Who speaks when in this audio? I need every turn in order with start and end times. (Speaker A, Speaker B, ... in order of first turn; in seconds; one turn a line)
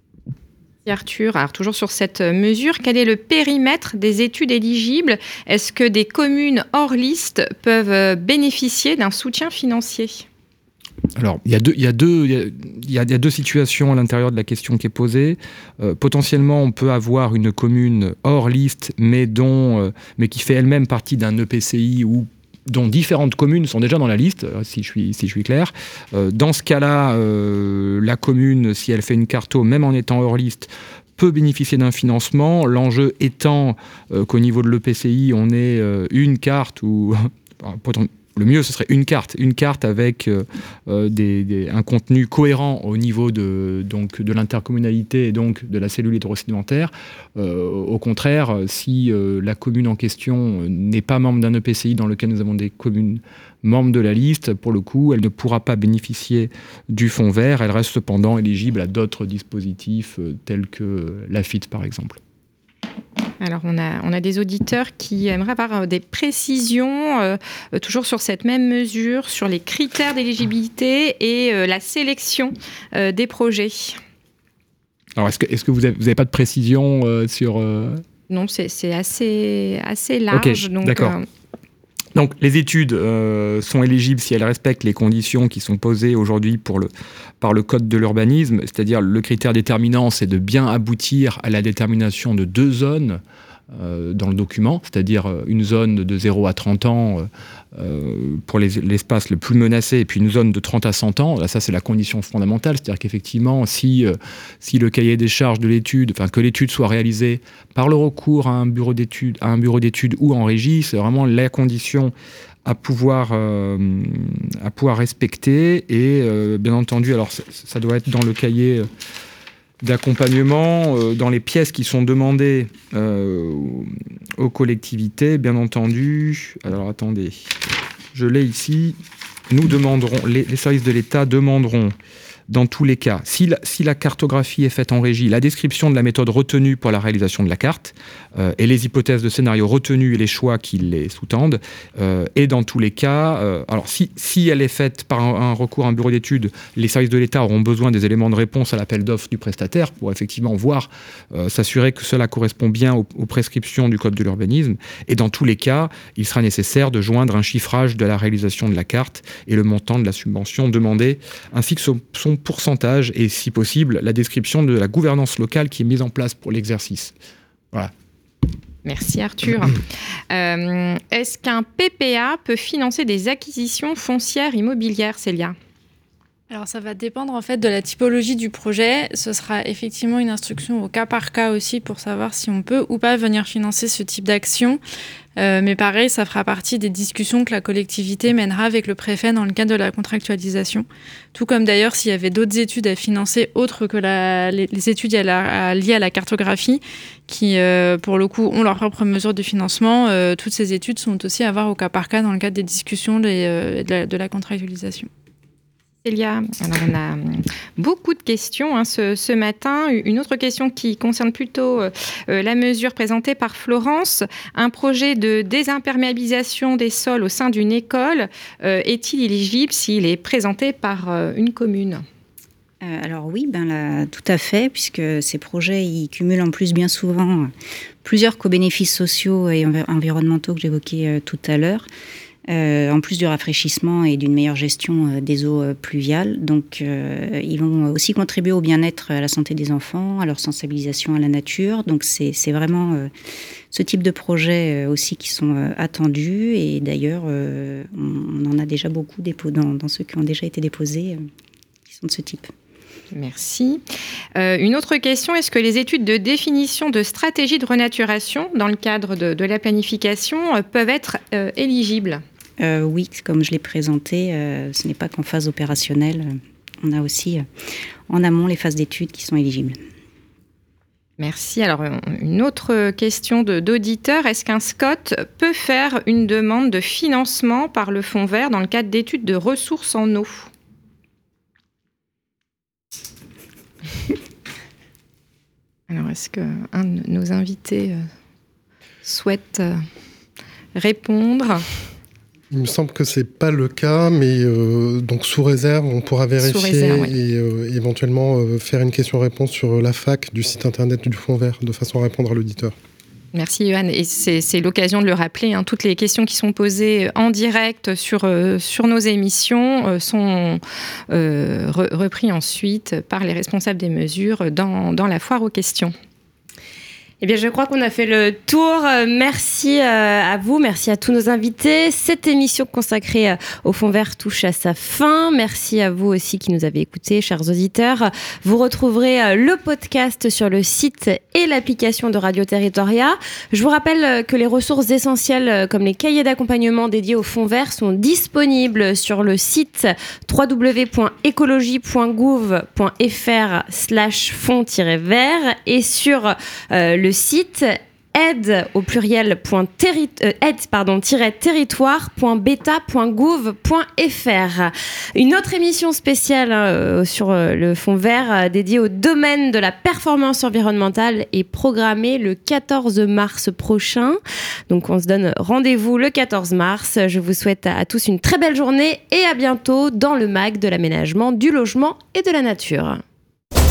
Speaker A: 0.8-10.2
Speaker B: 11.2-62.2
Speaker A: 63.4-74.0
Speaker B: 75.2-78.0
Speaker A: 78.3-81.2
Speaker B: 80.3-81.2
Speaker B: 82.1-86.9
Speaker B: 87.4-93.2
Speaker B: 93.7-112.1
Speaker B: 112.6-118.9
Speaker B: 119.8-127.5
Speaker B: 128.1-129.0
Speaker B: 129.5-131.9
Speaker B: 132.5-167.1
Speaker A: 168.8-175.6
Speaker C: 176.5-184.8
Speaker C: 185.4-205.1
Speaker A: 206.0-222.0
Speaker D: 222.8-227.5
Speaker D: 228.0-231.9
Speaker D: 232.5-243.1
Speaker D: 243.7-251.2
Speaker D: 251.9-252.5
Speaker A: 253.1-253.8
Speaker A: 254.3-262.2
Speaker D: 262.6-267.4
Speaker D: 268.1-269.8
Speaker A: 271.2-280.5
Speaker A: 285.9-288.1
Speaker A: 289.0-289.8
Speaker A: 290.8-291.6
Speaker E: 292.5-302.7
Speaker A: 296.4-297.1
Speaker A: 303.3-315.9
Speaker F: 317.2-364.2
Speaker F: 364.7-373.0